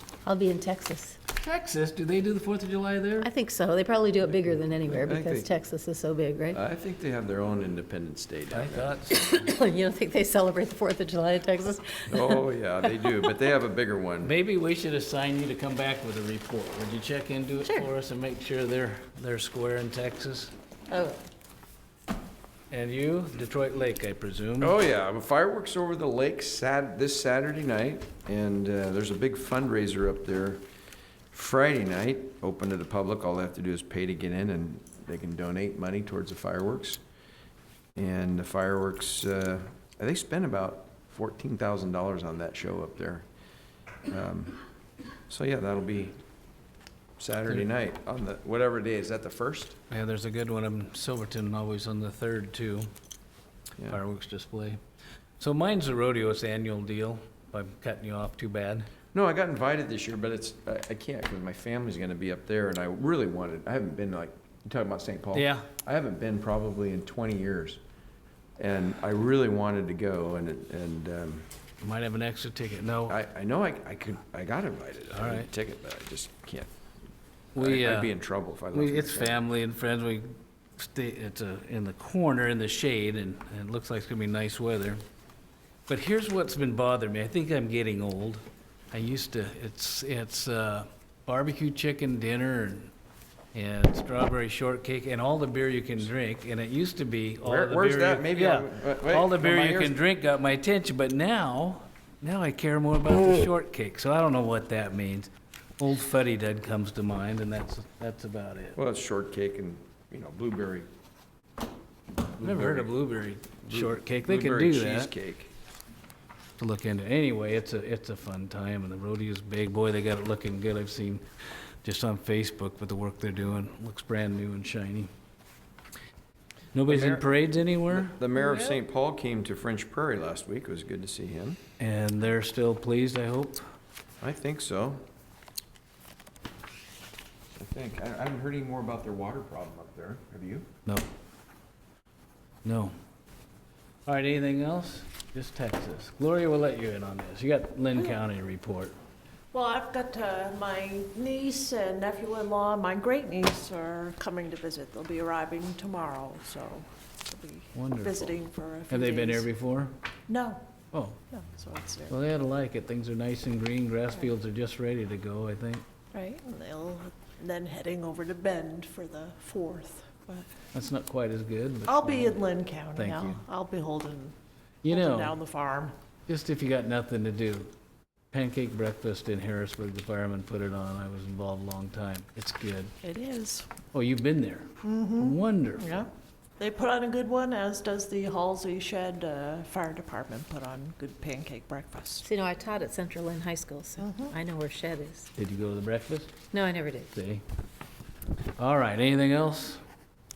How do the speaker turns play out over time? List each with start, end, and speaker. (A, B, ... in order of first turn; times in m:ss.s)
0:00.2-0:01.2 A
0:01.3-0:03.3 B
0:03.2-0:06.6 A
0:04.9-0:05.5 C
0:06.5-0:09.0 C
0:08.5-0:09.5 B
0:09.1-0:13.2 A
0:12.1-0:14.3 C
0:14.2-0:20.5 B
0:20.9-0:21.2 A
0:22.7-0:24.8 B
0:24.6-0:30.6 C
0:31.3-0:37.0 C
0:38.0-0:43.2 C
0:44.0-0:44.6 C
0:45.3-0:46.2 C
0:47.2-0:49.8 C
0:49.9-0:52.9 B
0:53.9-0:54.8 B
0:55.4-0:58.9 B
0:59.1-1:07.8 C
1:05.3-1:05.7 B
1:08.6-1:11.5 C
1:11.8-1:13.2 B
1:13.1-1:16.7 C
1:15.1-1:15.5 B
1:17.5-1:18.1 B
1:17.6-1:19.4 C
1:18.7-1:25.0 B
1:25.9-1:32.9 B
1:33.5-1:48.8 B
1:37.4-1:40.0 C
1:48.8-1:50.9 C
1:52.4-1:52.9 C
1:52.4-1:55.1 B
1:53.7-1:55.5 C
1:56.6-2:01.2 B
2:01.8-2:05.1 B
2:06.7-2:08.2 B
2:06.8-2:07.3 C
2:07.9-2:11.6 C
2:11.8-2:13.6 B
2:14.2-2:15.0 C
2:17.6-2:20.7 C
2:22.6-2:23.0 B
2:24.0-2:29.0 B
2:29.5-2:39.5 D
2:37.7-2:38.3 B
2:38.9-2:39.9 B
2:40.3-2:40.6 D
2:40.9-2:41.2 B
2:41.3-2:42.1 D
2:42.1-2:45.8 B
2:46.1-2:50.5 D
2:50.7-2:52.4 B
2:51.9-2:54.4 D
2:53.0-2:53.4 B
2:54.8-2:55.4 B
2:54.9-2:56.0 D
2:56.3-2:57.7 B
2:58.3-3:02.9 B
3:03.0-3:03.7 D
3:03.9-3:06.0 B
3:04.8-3:12.3 D
3:12.2-3:15.3 A
3:14.0-3:14.3 D
3:15.4-3:16.4 B
3:16.5-3:17.1 A
3:17.1-3:17.4 B
3:18.6-3:19.8 B